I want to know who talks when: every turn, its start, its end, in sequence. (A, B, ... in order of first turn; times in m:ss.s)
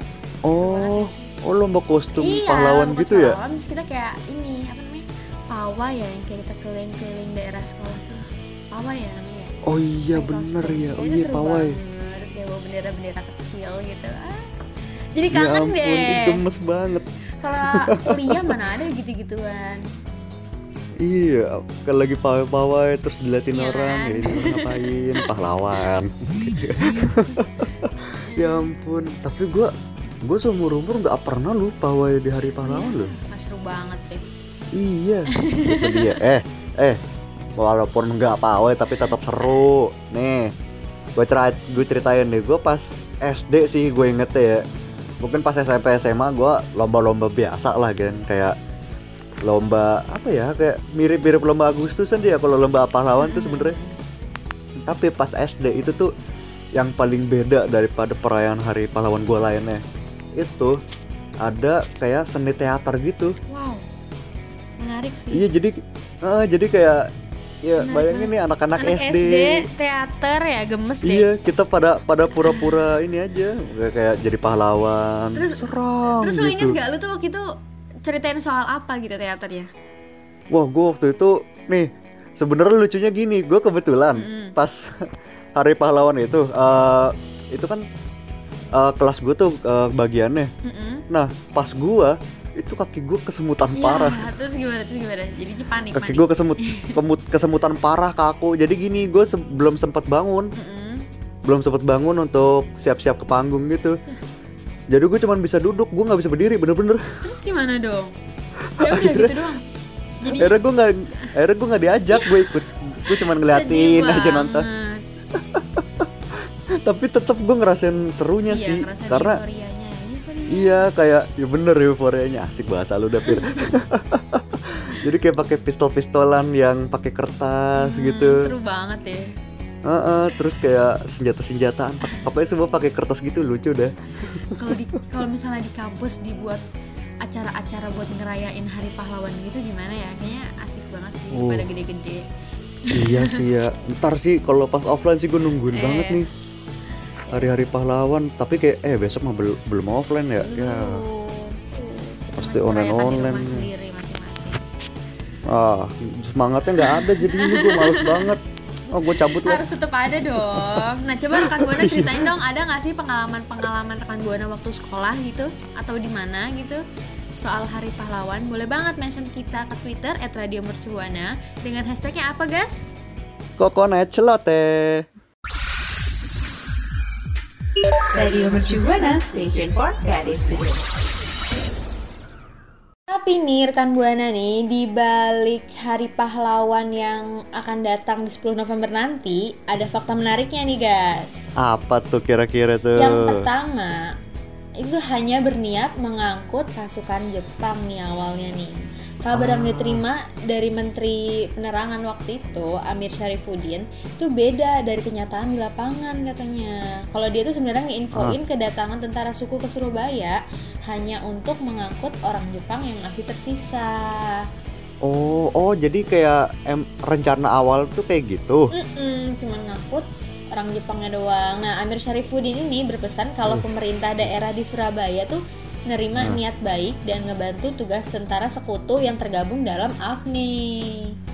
0:00.4-0:03.4 A
0:00.5-0:01.4 B
0:02.2-0:09.5 B
0:09.6-0:11.7 A
0:10.1-0:14.4 B
0:15.1-0:16.4 B
0:15.3-0:17.1 A
0:17.4-0:19.8 B
0:17.7-0:18.6 A
0:21.0-0:29.7 A
0:23.5-0:25.3 B
0:26.8-0:27.7 B
0:28.3-0:28.7 B
0:30.2-0:33.1 A
0:32.4-0:34.2 B
0:34.7-0:37.0 A
0:35.3-0:36.2 B
0:37.6-0:40.5 A
0:38.9-0:39.7 B
0:41.2-0:44.6 A
0:45.2-0:48.5 A
0:49.4-0:53.8 A
0:53.2-0:54.0 B
0:54.8-0:56.1 A
0:56.8-0:59.8 A
1:00.4-1:00.8 A
1:01.4-1:03.3 A
1:03.5-1:03.8 B
1:04.8-1:05.4 B
1:05.3-1:07.1 A
1:07.6-1:09.7 A
1:07.8-1:11.3 B
1:11.0-1:16.8 A
1:12.4-1:12.7 B
1:15.3-1:17.5 B
1:18.0-1:19.7 B
1:20.5-1:24.9 A
1:24.1-1:24.6 B
1:25.6-1:27.8 A
1:28.7-1:30.5 A
1:30.6-1:31.0 B
1:31.1-1:34.2 A
1:33.7-1:37.0 B
1:35.9-1:40.5 A
1:40.6-1:41.0 B
1:41.4-1:44.0 A
1:44.9-1:47.1 A
1:47.2-1:48.1 B
1:48.8-1:49.6 B
1:48.8-1:49.4 A
1:50.2-1:50.5 B
1:50.3-1:54.6 A
1:52.1-1:55.0 B
1:55.3-1:56.1 A
1:56.8-1:59.4 A
1:58.5-2:00.8 B
2:00.5-2:08.5 A
2:03.2-2:03.7 B
2:07.8-2:09.3 B
2:09.8-2:14.6 A
2:14.6-2:16.6 B
2:17.2-2:22.3 B
2:21.3-2:21.7 A
2:22.8-2:23.4 B
2:22.9-2:26.3 A
2:25.7-2:26.2 B
2:27.2-2:27.5 B
2:27.3-2:31.0 A
2:30.4-2:34.6 B
2:32.4-2:33.6 A
2:35.5-2:39.6 A
2:36.8-2:38.4 B
2:39.1-2:46.8 B
2:40.3-2:42.3 A
2:47.4-2:52.9 B
2:53.6-2:55.0 A
2:58.3-3:00.8 C
2:58.8-2:59.2 B
3:03.1-3:11.4 B
3:11.6-3:13.4 A
3:13.0-3:14.0 B
3:14.8-3:34.4 B
3:19.3-3:20.0 A
3:35.0-3:38.7 A
3:38.7-3:51.1 B
3:43.5-3:44.3 A